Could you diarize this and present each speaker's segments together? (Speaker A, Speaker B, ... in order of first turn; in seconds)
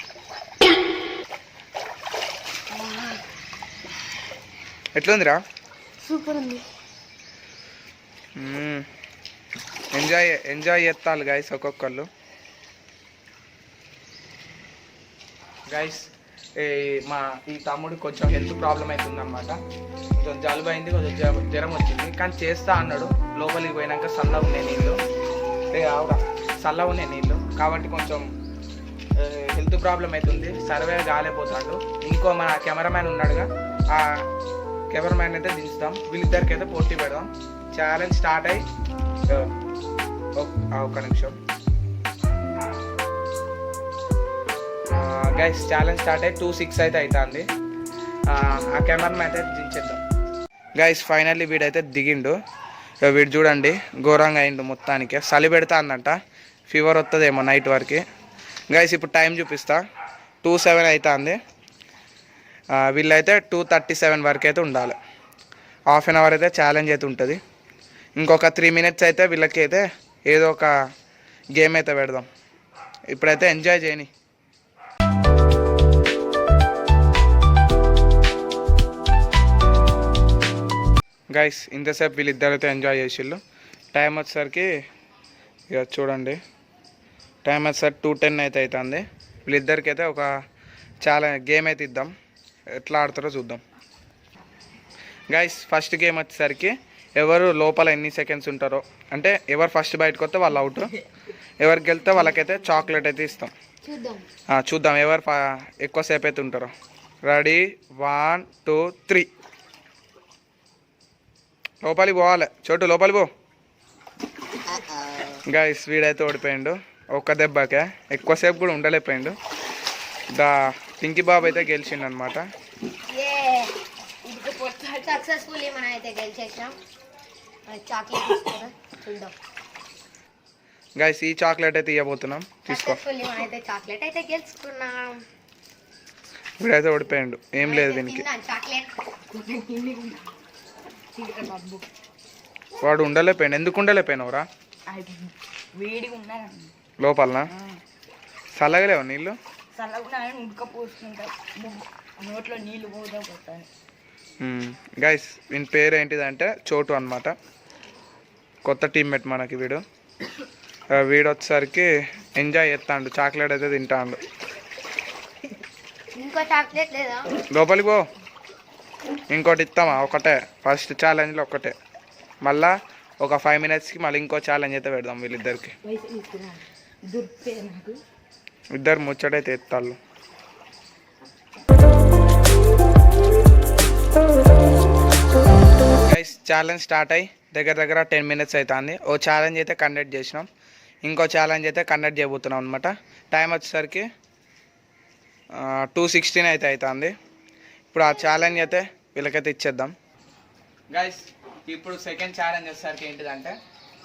Speaker A: 2.7-3.2, 6.0-6.7, 103.8-104.3, 123.1-123.8, 124.8-126.8, 127.7-129.3, 132.7-135.2, 137.6-138.9, 166.1-167.3
Speaker B: 5.0-5.4, 8.4-8.9, 9.9-12.1, 15.7-19.6, 20.1-25.0, 25.7-28.3, 29.2-34.3, 34.9-38.7, 39.3-39.5, 40.4-41.4, 44.9-47.5, 48.3-50.0, 50.8-52.4, 53.0-56.2, 56.7-58.0, 58.7-59.8, 60.4-61.4, 62.7-65.0, 65.9-67.4, 68.2-70.7, 71.5-72.3, 73.1-74.1, 81.3-83.4, 83.9-84.7, 85.7-86.4, 87.5-90.3, 91.0-92.1, 92.8-93.6, 95.3-101.0, 101.6-103.5, 104.5-106.7, 107.2-109.3, 111.8-113.3, 115.5-119.4, 120.3-122.4, 131.0-133.0, 136.6-138.3, 142.8-144.5, 147.0-147.5, 148.6-149.4, 154.4-157.3, 158.7-159.8, 160.9-164.2, 167.5-168.1, 169.3-171.8, 172.4-175.8, 178.7-180.0, 186.1-190.5, 191.0-194.1, 195.6-197.1, 197.9-199.9, 200.9-203.6
Speaker C: 124.4-124.8, 139.3-140.3, 141.2-141.9, 144.9-146.7, 147.5-147.8, 149.8-153.7, 175.8-178.0